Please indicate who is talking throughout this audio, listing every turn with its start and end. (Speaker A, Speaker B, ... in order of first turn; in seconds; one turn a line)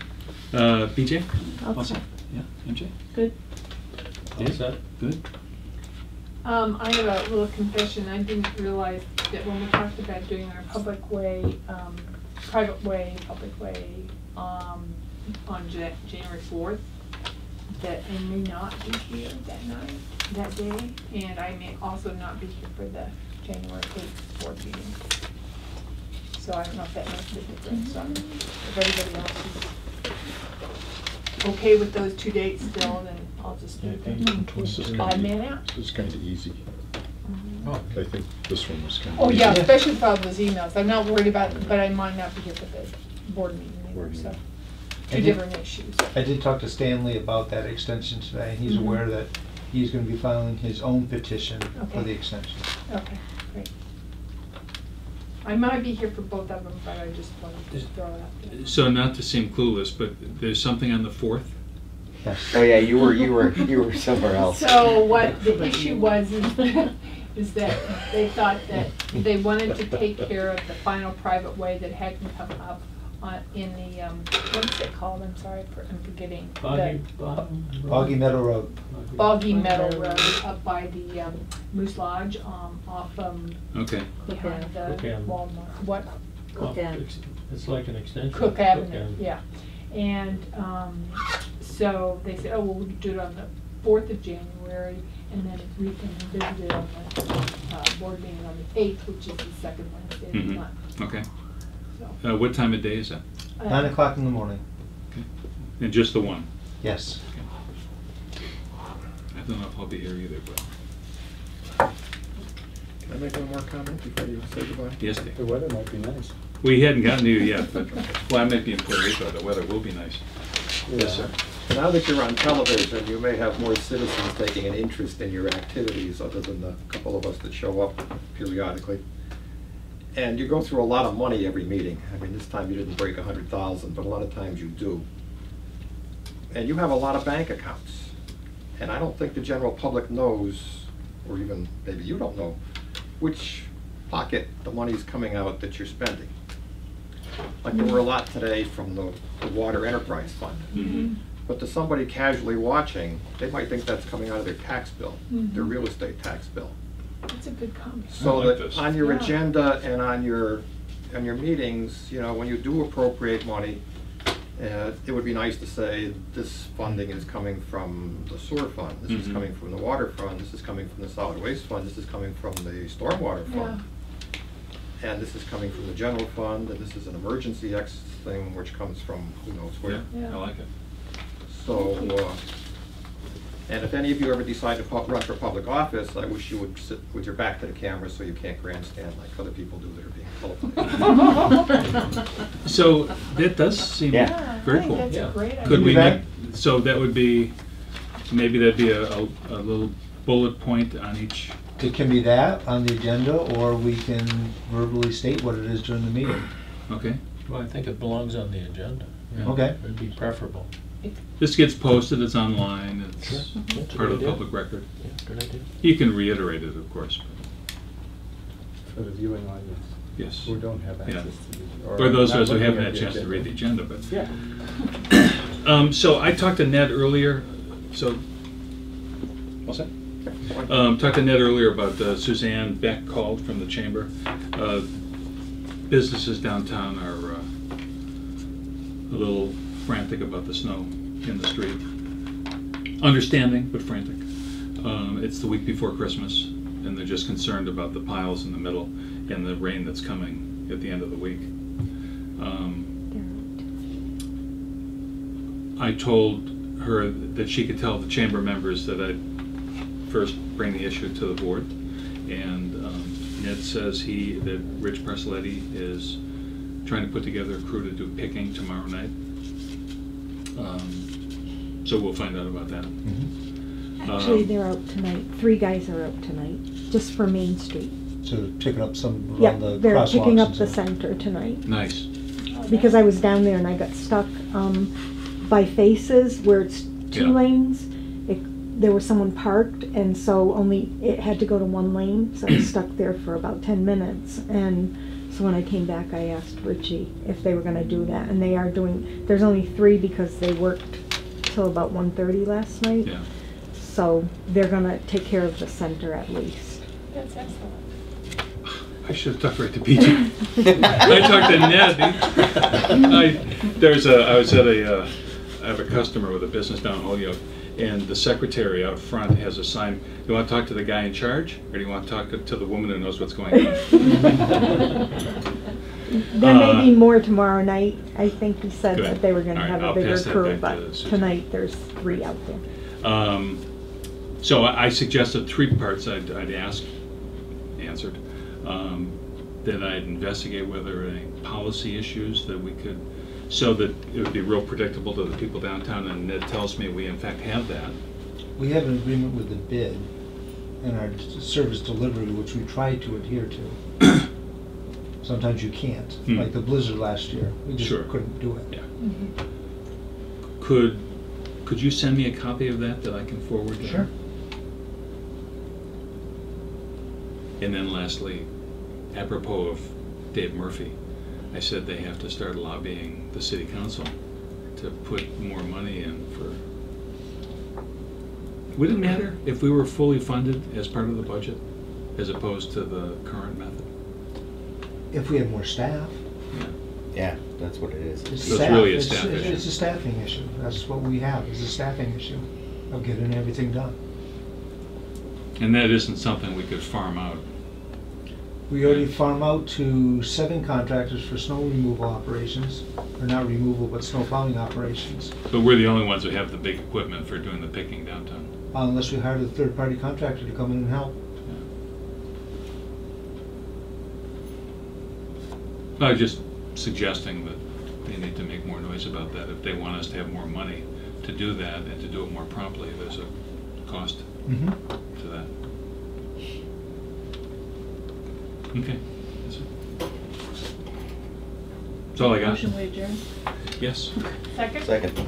Speaker A: 0.5-2.9
Speaker B: 1.6-2.0
Speaker C: 4.3-4.8
Speaker A: 4.4-5.2
Speaker D: 6.4-16.9
Speaker D: 17.7-25.0
Speaker D: 26.3-29.7
Speaker B: 27.7-28.2
Speaker D: 31.4-35.7
Speaker E: 33.8-35.3
Speaker F: 34.6-36.6
Speaker C: 37.6-38.0
Speaker F: 37.9-39.7
Speaker D: 39.1-44.4
Speaker G: 39.4-39.9
Speaker F: 44.0-44.3
Speaker D: 45.1-46.1
Speaker G: 45.1-45.4
Speaker G: 46.1-52.6
Speaker D: 48.7-49.0
Speaker D: 51.8-52.2
Speaker D: 52.9-53.7
Speaker D: 55.4-58.7
Speaker A: 58.5-61.5
Speaker G: 62.2-62.5
Speaker H: 62.5-65.0
Speaker D: 64.5-77.0
Speaker B: 65.3-66.5
Speaker C: 76.6-79.4
Speaker G: 77.9-78.7
Speaker D: 79.2-83.6
Speaker B: 79.3-80.4
Speaker A: 83.7-84.1
Speaker B: 84.2-85.0
Speaker D: 84.3-86.1
Speaker C: 84.8-85.4
Speaker B: 86.5-87.1
Speaker C: 86.6-89.2
Speaker D: 88.3-100.7
Speaker A: 100.3-101.3
Speaker A: 102.2-103.2
Speaker D: 103.6-104.0
Speaker G: 103.7-104.6
Speaker A: 105.8-106.5
Speaker G: 106.8-107.2
Speaker A: 109.3-110.7
Speaker I: 113.1-115.0
Speaker A: 115.0-115.4
Speaker J: 115.3-116.3
Speaker A: 116.6-120.2
Speaker A: 120.9-121.3
Speaker J: 120.9-121.3
Speaker I: 121.7-129.0
Speaker I: 130.1-135.1
Speaker I: 136.5-138.1
Speaker I: 138.8-142.6
Speaker I: 143.2-146.3
Speaker I: 147.6-156.7
Speaker A: 150.7-151.1
Speaker D: 150.8-151.2
Speaker D: 155.3-155.8
Speaker D: 157.3-159.4
Speaker A: 158.2-158.8
Speaker I: 158.2-163.8
Speaker I: 164.6-173.8
Speaker A: 169.1-169.4
Speaker D: 173.5-173.8
Speaker I: 175.0-180.1
Speaker A: 179.8-180.7
Speaker D: 180.1-180.4
Speaker I: 181.5-182.4
Speaker D: 181.7-182.1
Speaker I: 183.7-191.2
Speaker D: 190.9-191.6
Speaker A: 192.6-197.5
Speaker D: 194.1-196.2
Speaker C: 195.1-195.5
Speaker G: 195.6-196.2
Speaker A: 198.3-201.6
Speaker G: 201.8-206.5
Speaker A: 206.9-207.2
Speaker C: 207.5-210.7
Speaker A: 209.4-209.7
Speaker G: 209.4-209.8
Speaker A: 211.4-214.9
Speaker E: 213.2-215.7
Speaker B: 213.6-213.8
Speaker A: 215.8-217.3
Speaker J: 218.9-224.4
Speaker A: 220.2-221.4
Speaker A: 221.9-224.8
Speaker A: 225.4-228.2
Speaker A: 229.7-229.9
Speaker A: 230.5-234.9
Speaker A: 235.9-237.5
Speaker A: 239.1-241.8
Speaker A: 243.0-244.2
Speaker A: 244.8-251.5
Speaker A: 252.4-252.9
Speaker K: 253.1-253.7
Speaker A: 255.8-259.2
Speaker A: 260.1-261.7
Speaker A: 262.2-266.2
Speaker A: 266.8-269.1
Speaker A: 270.6-271.1
Speaker A: 271.8-272.9
Speaker G: 273.1-273.3
Speaker K: 274.0-277.9
Speaker A: 274.0-274.5
Speaker G: 278.2-280.8
Speaker K: 279.4-281.6
Speaker A: 281.6-282.1
Speaker D: 282.5-283.1
Speaker K: 282.7-303.2
Speaker A: 287.1-287.4
Speaker K: 303.7-306.8
Speaker D: 307.1-307.9
Speaker A: 309.0-324.6
Speaker K: 323.6-324.4
Speaker K: 326.1-332.6
Speaker A: 326.4-327.0
Speaker A: 328.9-331.4
Speaker A: 333.0-333.6
Speaker A: 334.4-336.9
Speaker A: 337.8-348.0
Speaker G: 348.6-350.1
Speaker G: 350.8-353.8
Speaker G: 355.2-358.7
Speaker A: 356.3-356.5
Speaker A: 357.8-358.9
Speaker D: 359.0-359.3
Speaker A: 360.6-361.1
Speaker A: 361.6-364.1
Speaker G: 363.8-364.1
Speaker A: 367.6-368.5
Speaker A: 369.1-371.0
Speaker A: 371.5-374.2
Speaker A: 374.7-376.6
Speaker A: 378.7-383.9
Speaker G: 385.1-386.2
Speaker H: 387.1-389.0
Speaker G: 388.3-393.9
Speaker A: 388.4-389.7
Speaker A: 395.6-397.4
Speaker G: 398.7-405.3
Speaker A: 398.8-399.1
Speaker A: 405.5-408.5
Speaker G: 408.7-411.1
Speaker A: 416.0-425.5
Speaker G: 424.5-424.8
Speaker A: 428.7-429.7
Speaker A: 432.1-432.9
Speaker B: 432.2-433.2
Speaker A: 433.8-434.1
Speaker D: 434.5-434.9
Speaker H: 434.8-435.2